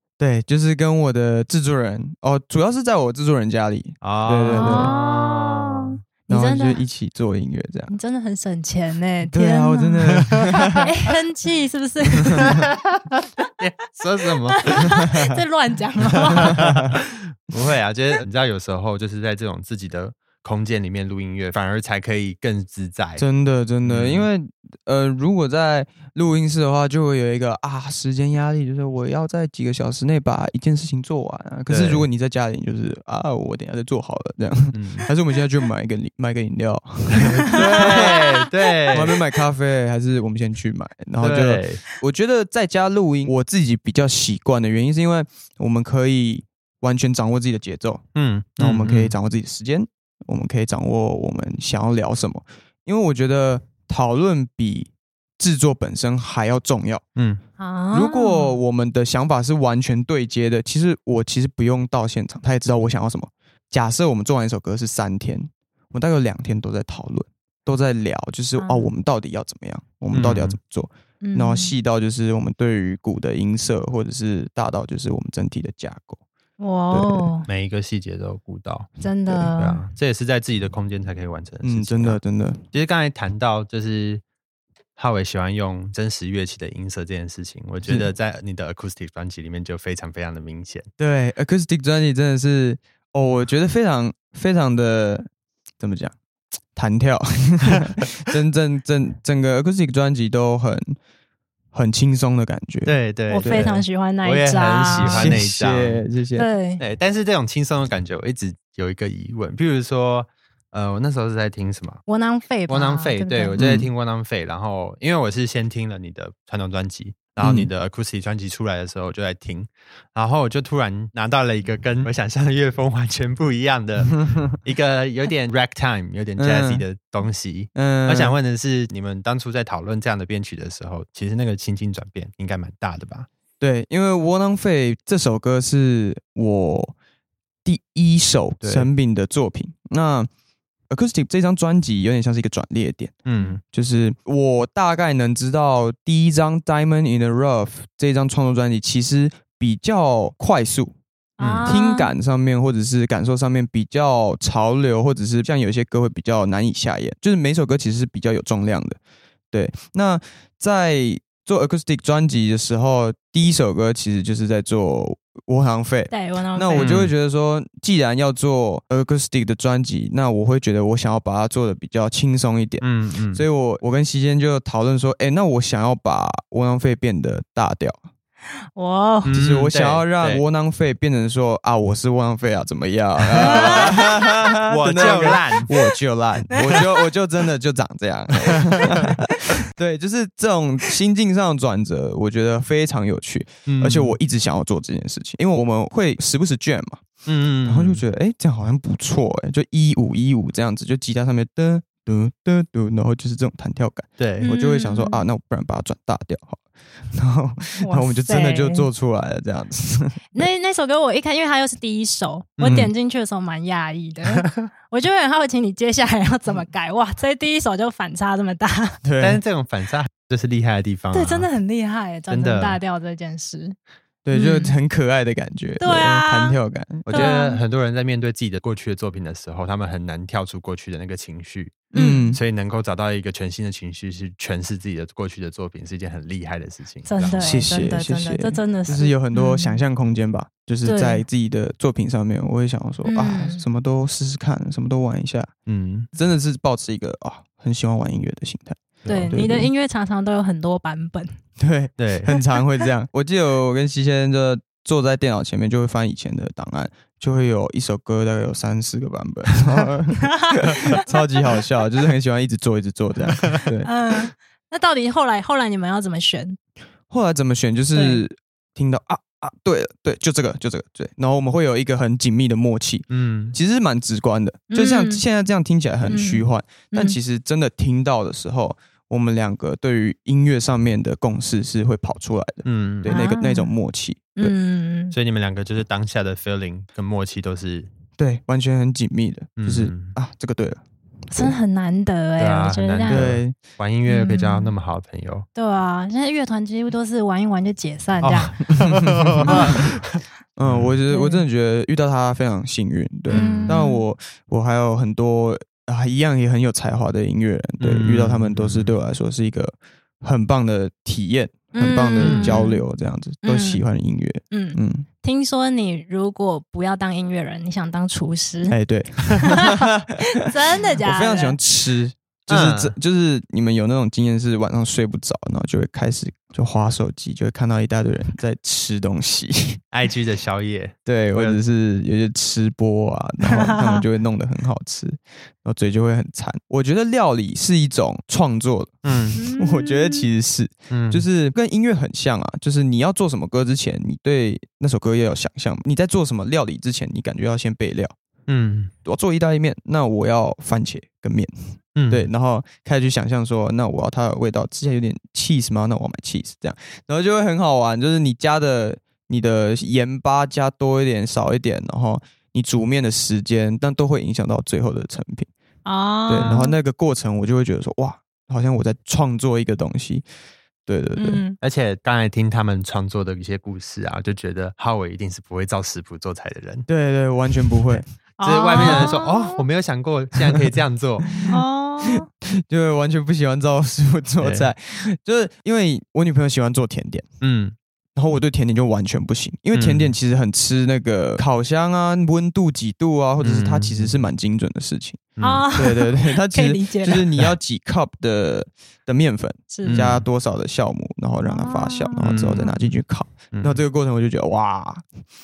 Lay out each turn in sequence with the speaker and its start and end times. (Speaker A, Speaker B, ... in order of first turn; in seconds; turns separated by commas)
Speaker A: 0.2-4.9, Speaker B: 4.0-5.9, Speaker C: 4.5-6.8, Speaker A: 6.3-7.9, Speaker C: 7.9-10.3, Speaker A: 9.2-10.8, Speaker B: 10.1-10.8, Speaker C: 10.8-12.6, Speaker B: 12.3-14.9, Speaker C: 14.3-16.6, Speaker B: 16.3-23.2, Speaker A: 16.4-16.9, Speaker A: 23.2-38.2, Speaker B: 23.8-24.3, Speaker B: 31.7-32.0, Speaker B: 34.7-35.1, Speaker B: 37.1-39.2, Speaker C: 37.8-38.3, Speaker A: 38.9-48.0, Speaker B: 41.2-41.8, Speaker B: 48.1-49.1, Speaker A: 48.6-57.0, Speaker C: 57.6-58.6, Speaker A: 57.9-76.2, Speaker C: 68.6-68.9, Speaker B: 70.1-70.6, Speaker C: 71.2-71.8, Speaker C: 76.6-77.5, Speaker A: 76.9-77.3, Speaker B: 77.5-82.2, Speaker C: 79.0-79.8, Speaker A: 81.6-82.6, Speaker B: 82.7-84.2, Speaker B: 85.0-90.9, Speaker A: 91.0-95.3, Speaker A: 95.8-96.1, Speaker A: 96.8-101.0, Speaker A: 101.7-103.6, Speaker B: 102.8-106.0, Speaker C: 103.3-105.4, Speaker A: 105.0-106.5, Speaker C: 106.3-106.8, Speaker B: 106.8-112.0, Speaker C: 112.1-113.6, Speaker B: 112.7-133.3, Speaker A: 113.6-113.9, Speaker A: 117.4-117.7, Speaker A: 126.4-126.8, Speaker A: 127.8-128.3, Speaker A: 133.6-136.9, Speaker A: 137.6-140.3, Speaker B: 138.6-138.9, Speaker A: 140.9-150.9, Speaker B: 143.2-143.6, Speaker C: 151.4-152.1, Speaker B: 151.4-151.7, Speaker A: 151.6-159.0, Speaker A: 159.5-178.0, Speaker C: 166.1-167.0, Speaker B: 166.8-167.1, Speaker B: 172.8-173.4, Speaker C: 178.8-179.3, Speaker B: 179.2-180.4, Speaker A: 179.3-197.0, Speaker B: 183.2-184.0, Speaker C: 183.4-184.1, Speaker B: 184.7-185.7, Speaker B: 188.5-188.9, Speaker B: 193.7-194.2, Speaker B: 197.2-198.0, Speaker A: 197.6-210.5, Speaker B: 204.2-204.5, Speaker C: 204.4-205.2, Speaker C: 207.8-208.9, Speaker C: 210.3-219.0, Speaker B: 212.6-212.9, Speaker A: 212.6-212.9, Speaker A: 219.0-219.4, Speaker B: 219.2-221.5, Speaker C: 221.1-223.8, Speaker B: 222.3-222.8, Speaker A: 224.2-227.3, Speaker C: 224.3-224.8, Speaker C: 225.8-226.6, Speaker B: 227.1-237.4, Speaker C: 227.1-227.6, Speaker C: 231.9-232.3, Speaker A: 231.9-232.4, Speaker C: 237.1-239.8, Speaker A: 237.4-245.5, Speaker C: 240.8-241.2, Speaker C: 243.0-243.6, Speaker B: 245.7-246.1, Speaker A: 246.1-249.7, Speaker B: 249.0-249.3, Speaker C: 249.1-251.3, Speaker A: 251.6-263.9, Speaker B: 252.0-252.4, Speaker C: 260.2-261.2, Speaker B: 263.4-263.6, Speaker C: 263.8-266.6, Speaker A: 267.1-284.5, Speaker C: 267.9-268.2, Speaker B: 273.1-273.5, Speaker C: 274.7-275.2, Speaker C: 276.1-277.2, Speaker B: 282.6-283.2, Speaker C: 283.1-283.7, Speaker C: 284.4-285.1, Speaker B: 285.1-287.9, Speaker A: 288.2-291.5, Speaker B: 289.6-290.1, Speaker C: 291.3-293.3, Speaker B: 292.4-295.5, Speaker A: 293.1-293.6, Speaker C: 294.1-294.7, Speaker C: 295.5-298.6, Speaker B: 298.2-300.9, Speaker A: 298.8-299.8, Speaker C: 299.5-299.8, Speaker A: 300.6-315.1, Speaker C: 301.1-301.4, Speaker B: 303.3-303.8, Speaker C: 303.3-304.0, Speaker B: 307.8-308.9, Speaker C: 311.7-312.8, Speaker B: 312.2-312.6, Speaker C: 313.4-313.8, Speaker C: 314.5-318.8, Speaker A: 318.7-320.5, Speaker C: 319.4-321.6, Speaker A: 321.0-329.8, Speaker B: 322.5-322.9, Speaker B: 329.9-331.6, Speaker A: 331.1-348.1, Speaker C: 333.5-334.0, Speaker B: 339.0-339.4, Speaker C: 339.4-340.3, Speaker B: 340.9-341.2, Speaker B: 348.5-348.9, Speaker A: 349.0-351.5, Speaker B: 352.0-352.3, Speaker A: 352.1-365.5, Speaker C: 365.8-366.7, Speaker A: 366.3-370.2, Speaker B: 366.3-366.6, Speaker A: 370.9-371.4, Speaker C: 371.2-371.6, Speaker B: 371.6-376.9, Speaker A: 376.9-378.1, Speaker C: 378.4-379.6, Speaker B: 378.4-381.4, Speaker A: 378.8-379.1, Speaker A: 381.3-381.5, Speaker C: 381.5-382.3, Speaker A: 382.4-387.2, Speaker B: 384.4-384.7, Speaker B: 387.4-387.8, Speaker A: 388.1-405.1, Speaker B: 389.7-390.1, Speaker B: 393.4-394.1, Speaker B: 395.4-395.6, Speaker C: 395.4-397.3, Speaker C: 399.7-400.1, Speaker B: 399.8-400.2, Speaker C: 401.5-402.7, Speaker B: 402.2-402.9, Speaker B: 403.5-403.8